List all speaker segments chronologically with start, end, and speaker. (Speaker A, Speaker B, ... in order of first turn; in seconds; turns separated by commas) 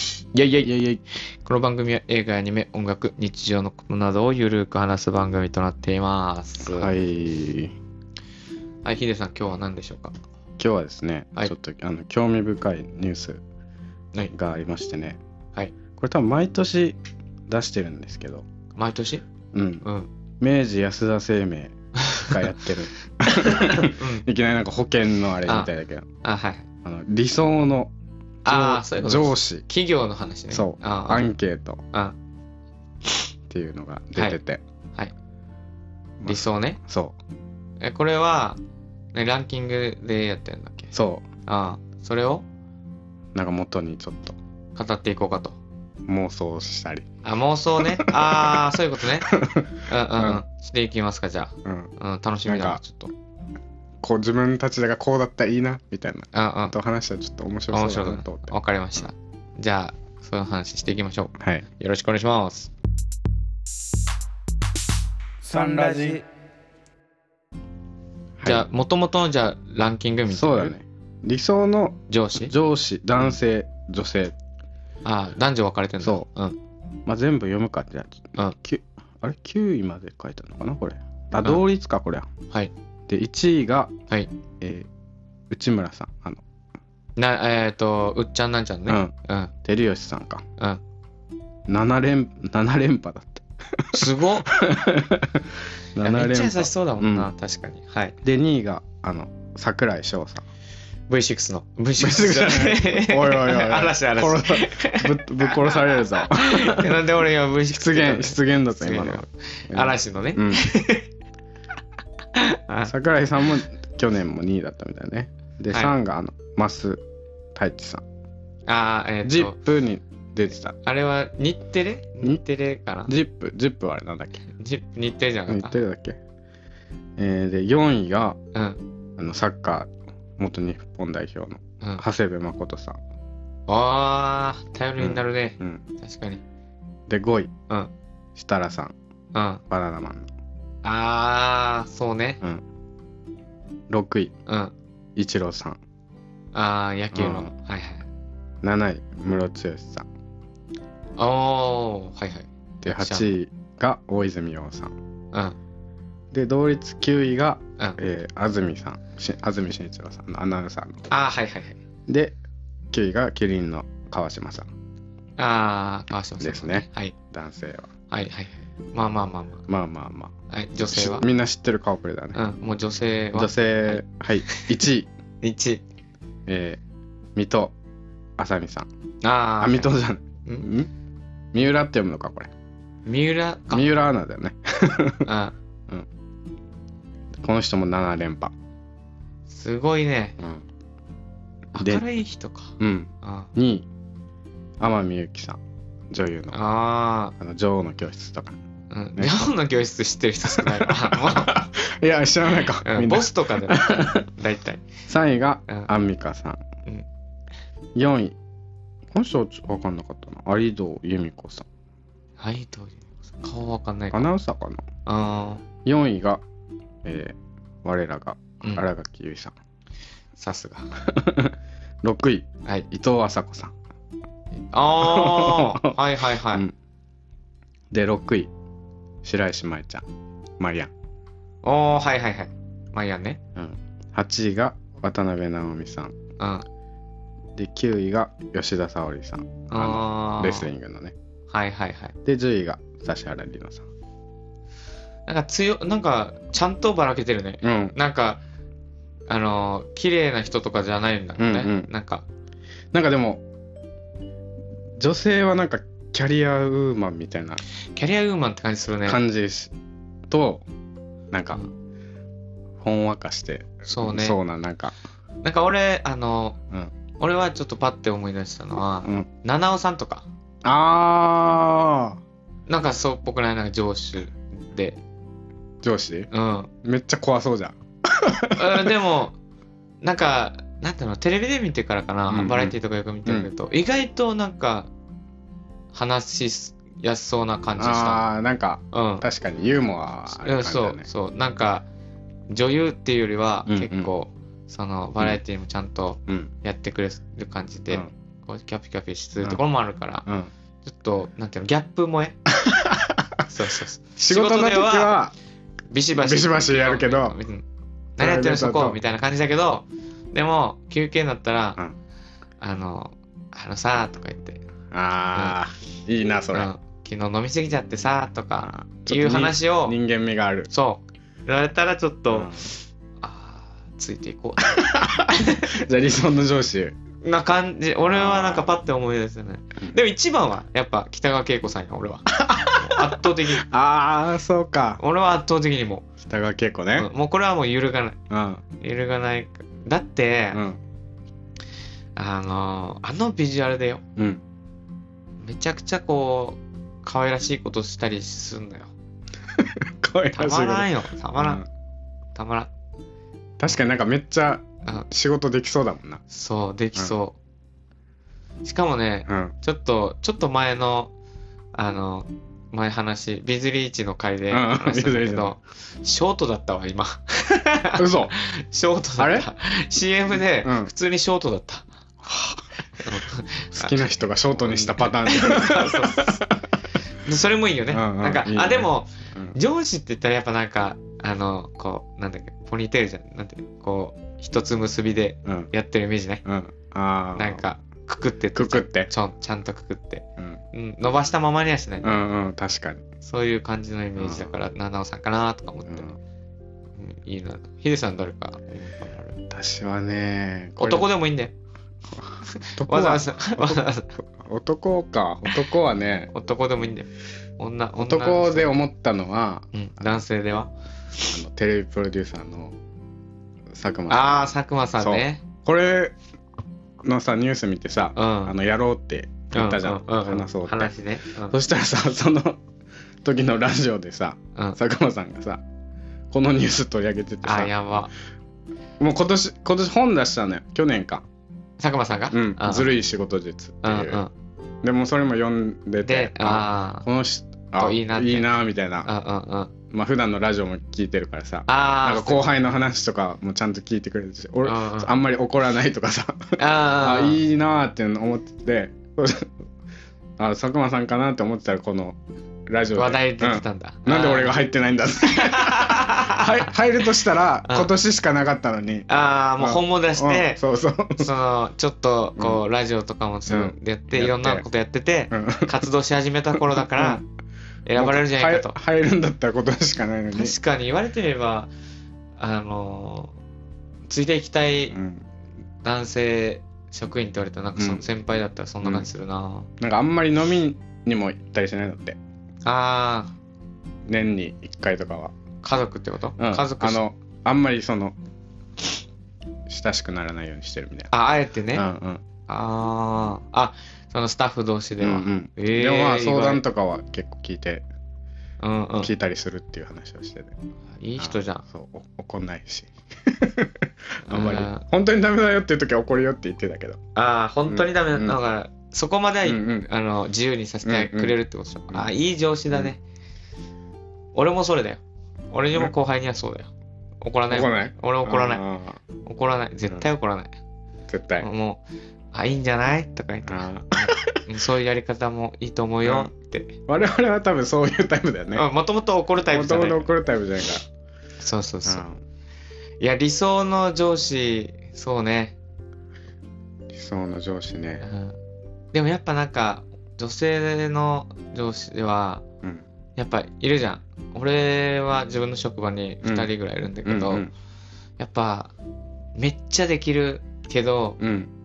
Speaker A: 0.3-0.7, Speaker B: 0.6-1.0, Speaker A: 1.4-6.9, Speaker B: 6.6-7.7, Speaker A: 8.8-10.1, Speaker B: 10.6-13.4, Speaker B: 14.3-15.2, Speaker B: 16.0-18.4, Speaker A: 18.8-19.2, Speaker B: 19.5-19.8, Speaker A: 19.8-20.1, Speaker B: 20.4-26.1, Speaker A: 22.0-22.5, Speaker A: 23.2-24.2, Speaker A: 26.2-26.6, Speaker B: 26.8-27.9, Speaker A: 28.4-31.3, Speaker B: 28.4-29.6, Speaker B: 30.5-31.8, Speaker B: 33.5-34.6, Speaker B: 36.2-37.1, Speaker A: 36.2-36.8, Speaker A: 37.8-38.6, Speaker A: 39.1-40.9, Speaker B: 40.9-41.2, Speaker A: 41.5-42.4, Speaker B: 43.3-44.4, Speaker A: 44.8-45.6, Speaker B: 46.1-47.0, Speaker A: 47.2-49.3, Speaker B: 47.8-48.7, Speaker B: 49.2-50.4, Speaker A: 49.9-53.1, Speaker B: 51.6-51.9, Speaker B: 52.5-52.8, Speaker B: 54.0-58.5, Speaker A: 56.3-56.7, Speaker A: 57.7-62.7, Speaker B: 65.4-66.2, Speaker B: 68.4-68.6, Speaker A: 68.4-70.7, Speaker B: 70.3-74.3, Speaker A: 72.1-72.5, Speaker A: 75.0-76.5, Speaker B: 77.0-82.2, Speaker B: 83.1-83.9, Speaker B: 84.6-84.9, Speaker B: 85.5-86.4, Speaker A: 87.2-89.5, Speaker B: 88.9-89.1, Speaker B: 89.6-90.4, Speaker B: 91.7-97.3, Speaker A: 93.9-94.5, Speaker A: 96.0-98.2, Speaker B: 98.2-100.4, Speaker A: 101.1-111.1, Speaker B: 102.0-107.0, Speaker B: 107.7-110.7, Speaker A: 112.3-112.9, Speaker B: 112.9-117.0, Speaker A: 115.7-116.0, Speaker B: 117.5-118.0, Speaker A: 118.7-119.5, Speaker B: 119.2-120.7, Speaker A: 120.8-123.1, Speaker B: 123.1-124.4, Speaker A: 124.5-125.8, Speaker B: 125.5-126.2, Speaker B: 127.2-128.4, Speaker A: 128.5-128.8, Speaker B: 129.2-133.0, Speaker A: 133.7-136.4, Speaker B: 135.0-135.8, Speaker B: 137.1-137.5, Speaker B: 138.3-138.9, Speaker A: 139.3-139.6, Speaker B: 139.7-140.3, Speaker A: 140.8-142.4, Speaker B: 143.9-144.3, Speaker A: 144.5-144.7, Speaker B: 145.2-145.8, Speaker A: 146.5-148.1, Speaker B: 147.1-147.5, Speaker B: 148.6-150.1, Speaker A: 151.2-153.3, Speaker B: 152.8-154.9, Speaker B: 156.3-161.1, Speaker A: 161.1-161.8, Speaker B: 162.1-162.3, Speaker B: 162.9-164.7, Speaker A: 165.4-167.1, Speaker B: 166.4-167.9, Speaker A: 168.1-169.6, Speaker B: 169.7-172.4, Speaker A: 170.5-171.3, Speaker A: 172.3-174.7, Speaker B: 173.3-175.1, Speaker A: 175.4-175.8, Speaker B: 176.5-176.8, Speaker B: 177.3-177.7, Speaker B: 178.4-178.9, Speaker A: 179.2-179.9, Speaker B: 179.6-180.9, Speaker B: 181.5-182.5, Speaker A: 183.1-183.9, Speaker B: 183.7-185.3, Speaker A: 185.2-185.5, Speaker B: 187.4-188.5, Speaker A: 189.5-190.4, Speaker B: 190.4-190.6, Speaker A: 191.7-193.5, Speaker B: 191.8-192.0, Speaker B: 192.8-193.9, Speaker B: 194.8-195.6, Speaker B: 196.1-196.6, Speaker A: 196.5-197.3, Speaker B: 197.4-198.6, Speaker A: 198.9-201.7, Speaker B: 199.2-199.5, Speaker B: 200.5-204.2, Speaker A: 202.8-204.8, Speaker B: 205.1-206.6, Speaker B: 207.9-208.3, Speaker B: 209.1-211.7, Speaker A: 212.4-214.3, Speaker B: 214.1-214.8, Speaker A: 215.1-215.6, Speaker B: 215.8-216.4, Speaker B: 217.0-219.5, Speaker A: 220.4-220.9, Speaker B: 221.0-223.7, Speaker A: 224.6-226.7, Speaker B: 225.0-225.9, Speaker B: 227.9-228.5, Speaker B: 229.2-230.1, Speaker B: 230.6-230.9, Speaker A: 231.6-233.4, Speaker B: 233.5-236.1, Speaker A: 236.4-236.6, Speaker B: 237.6-241.1, Speaker A: 239.7-240.7, Speaker A: 241.5-242.1, Speaker B: 242.2-243.8, Speaker A: 245.3-248.4, Speaker B: 247.6-247.9, Speaker A: 249.3-252.2, Speaker B: 251.4-251.9, Speaker B: 252.9-253.4, Speaker B: 255.0-257.6, Speaker A: 257.9-259.2, Speaker B: 259.1-259.7, Speaker B: 260.3-260.6, Speaker B: 261.3-261.6, Speaker B: 262.8-264.9, Speaker A: 263.9-264.4, Speaker A: 265.4-266.6, Speaker A: 267.2-270.2, Speaker B: 270.6-272.2, Speaker A: 272.7-275.0, Speaker B: 275.8-276.3, Speaker A: 276.3-276.7, Speaker B: 276.8-278.9, Speaker A: 278.5-279.4, Speaker A: 280.0-284.9, Speaker B: 282.3-283.5, Speaker A: 285.9-288.2, Speaker B: 287.8-291.1, Speaker A: 288.9-289.2, Speaker A: 290.3-291.8, Speaker A: 292.5-300.2, Speaker B: 293.7-294.1, Speaker B: 300.2-300.5, Speaker A: 300.8-302.4, Speaker B: 302.5-303.4, Speaker A: 303.5-305.1, Speaker B: 304.2-305.3, Speaker A: 305.9-307.6, Speaker B: 306.2-307.4, Speaker B: 308.2-309.0, Speaker A: 308.2-311.8, Speaker A: 312.6-314.6, Speaker B: 314.9-316.7, Speaker A: 316.5-319.9, Speaker B: 318.6-320.7, Speaker A: 320.7-325.8, Speaker B: 322.3-322.7, Speaker B: 324.7-326.9, Speaker A: 327.2-333.6, Speaker B: 328.1-328.8, Speaker B: 332.4-335.0, Speaker A: 335.0-336.1, Speaker B: 336.2-337.1, Speaker A: 337.0-338.2, Speaker B: 338.3-338.6, Speaker A: 338.8-340.6, Speaker B: 340.5-340.8, Speaker A: 342.1-344.0, Speaker B: 344.2-344.4, Speaker A: 345.4-348.9, Speaker B: 349.5-351.6, Speaker A: 350.3-351.6, Speaker A: 352.3-352.7, Speaker B: 353.6-356.2, Speaker A: 356.3-357.4, Speaker A: 358.6-361.1, Speaker B: 359.3-359.5, Speaker A: 361.7-371.9, Speaker B: 364.5-365.5, Speaker B: 368.0-368.3, Speaker B: 369.2-369.5, Speaker B: 370.6-370.9, Speaker B: 372.2-372.6, Speaker A: 373.0-376.4, Speaker B: 373.7-376.5, Speaker A: 377.2-386.4, Speaker B: 377.9-379.5, Speaker B: 386.4-387.6, Speaker A: 387.3-392.2, Speaker B: 388.5-389.1, Speaker B: 392.0-393.0, Speaker A: 393.2-396.1, Speaker B: 394.2-394.5, Speaker B: 395.9-396.2, Speaker A: 397.0-399.4, Speaker B: 399.5-401.1, Speaker A: 400.8-401.5, Speaker B: 402.1-406.3, Speaker A: 402.4-404.1, Speaker A: 406.3-408.8, Speaker B: 408.0-409.7, Speaker A: 409.7-411.3, Speaker B: 411.3-412.7, Speaker B: 413.7-414.4, Speaker A: 414.1-415.4, Speaker B: 415.0-416.1, Speaker B: 417.0-422.6, Speaker A: 418.1-418.5, Speaker A: 419.5-421.6, Speaker B: 423.2-425.6, Speaker B: 426.3-427.7, Speaker A: 427.4-428.1, Speaker B: 429.0-431.2, Speaker A: 431.8-432.9, Speaker B: 432.3-434.2, Speaker A: 433.8-434.3, Speaker B: 434.8-439.1, Speaker A: 436.0-437.1, Speaker A: 437.8-439.7, Speaker B: 439.9-449.5, Speaker A: 441.7-442.5, Speaker A: 444.6-445.1, Speaker A: 446.6-447.4, Speaker B: 450.4-452.2, Speaker B: 452.7-459.1, Speaker A: 452.9-454.6, Speaker A: 455.2-456.7, Speaker A: 457.6-457.9, Speaker A: 459.1-460.6, Speaker B: 459.6-461.3, Speaker A: 461.2-467.2, Speaker B: 463.5-464.6, Speaker B: 465.3-465.8, Speaker B: 466.6-467.2, Speaker A: 467.9-468.8, Speaker B: 468.0-470.6, Speaker A: 470.3-471.7, Speaker A: 472.4-473.3, Speaker A: 474.1-475.0, Speaker B: 474.9-475.2, Speaker A: 475.8-479.7, Speaker B: 477.8-478.0, Speaker B: 479.8-482.2, Speaker A: 482.6-483.3, Speaker B: 484.1-485.3, Speaker A: 485.6-487.0, Speaker B: 486.4-488.1, Speaker B: 489.7-491.1, Speaker A: 491.1-491.9, Speaker B: 491.7-492.2, Speaker A: 492.5-496.6, Speaker B: 495.0-497.8, Speaker A: 498.6-499.1, Speaker B: 499.0-500.5, Speaker A: 501.0-501.6, Speaker B: 501.2-507.0, Speaker A: 504.2-504.8, Speaker A: 507.1-513.0, Speaker B: 507.7-508.4, Speaker B: 509.4-509.9, Speaker B: 510.8-511.3, Speaker A: 514.3-516.7, Speaker A: 517.2-518.6, Speaker B: 517.5-519.0, Speaker A: 519.2-520.5, Speaker B: 521.1-521.5, Speaker A: 521.4-526.8, Speaker B: 523.4-524.4, Speaker B: 526.0-526.3, Speaker B: 526.9-528.6, Speaker A: 528.5-530.1, Speaker B: 529.5-530.8, Speaker A: 531.4-532.1, Speaker B: 531.8-532.2, Speaker A: 533.0-535.6, Speaker B: 536.9-538.0, Speaker A: 538.0-538.4, Speaker A: 538.9-542.4, Speaker A: 543.2-547.5, Speaker B: 546.2-546.5, Speaker B: 547.0-547.5, Speaker A: 548.2-548.7, Speaker A: 549.4-551.2, Speaker B: 551.2-551.5